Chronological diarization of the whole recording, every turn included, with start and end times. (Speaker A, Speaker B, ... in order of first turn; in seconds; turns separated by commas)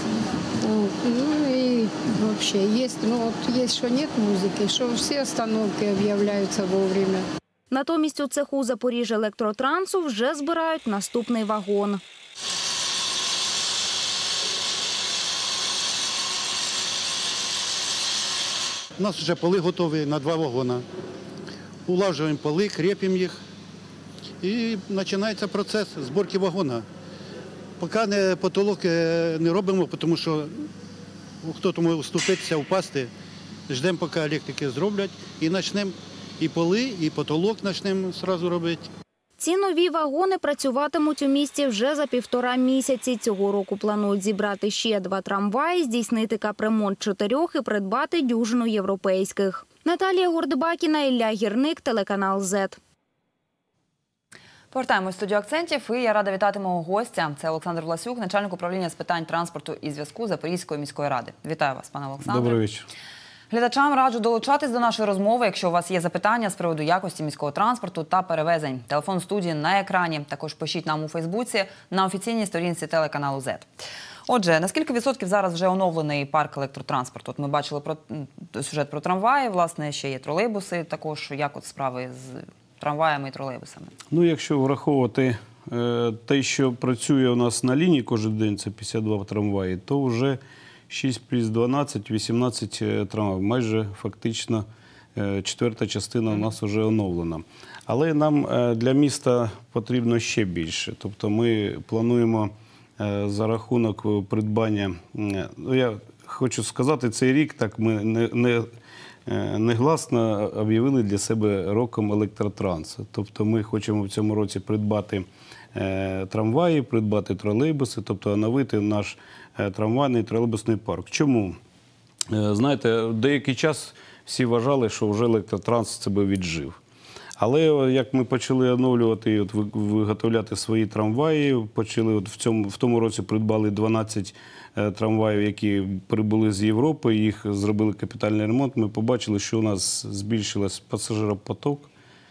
Speaker A: 0.6-7.2, Speaker B: 7.7-12.0, Speaker C: 19.0-20.8, Speaker C: 21.9-23.4, Speaker C: 24.4-26.8, Speaker C: 27.8-30.7, Speaker C: 31.4-33.1, Speaker C: 33.7-38.9, Speaker B: 39.4-52.8, Speaker D: 54.7-62.6, Speaker E: 62.2-62.9, Speaker D: 63.5-73.7, Speaker D: 74.3-83.9, Speaker E: 84.1-108.7, Speaker E: 109.2-121.6, Speaker E: 122.3-126.8, Speaker E: 127.4-141.9